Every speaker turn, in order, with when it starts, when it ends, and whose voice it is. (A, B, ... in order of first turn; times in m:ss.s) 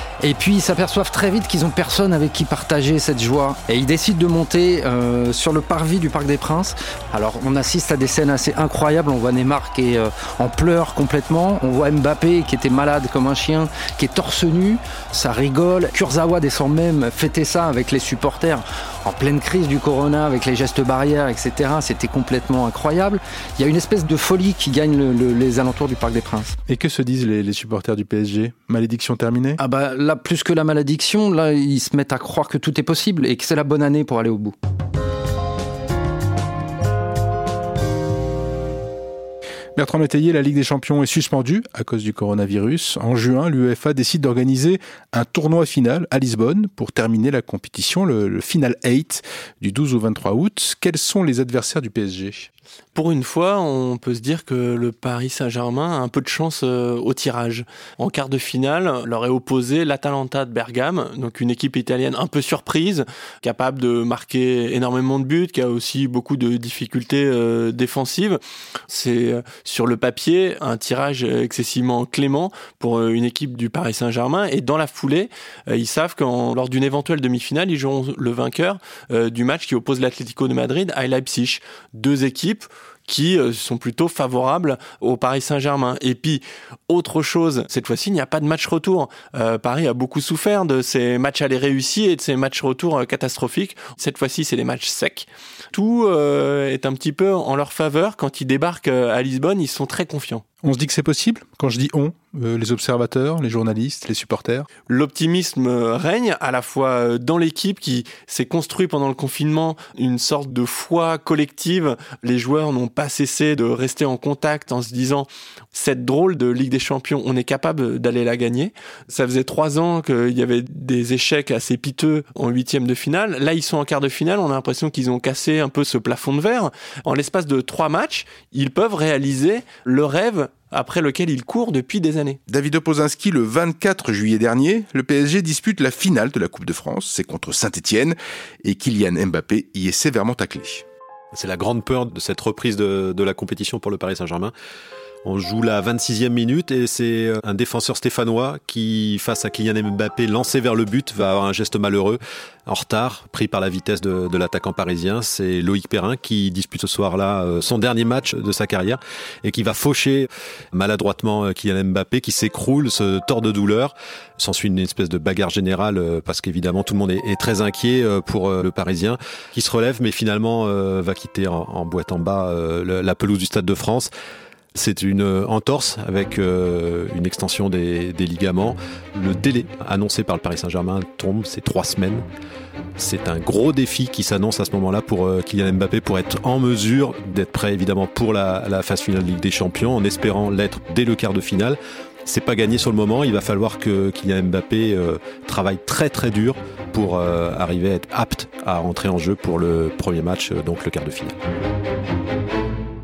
0:00.2-0:26.6 A
0:26.7-0:29.6 B
0:29.6-0:34.5 A
0:39.8-0:52.5 B
0:52.9-1:40.4 C
1:40.6-1:44.7 B
1:44.9-2:12.4 C
2:12.5-2:20.8 B
2:21.3-2:24.5 D
2:25.2-2:54.1 D
2:54.7-3:02.2 D
3:03.0-3:21.4 D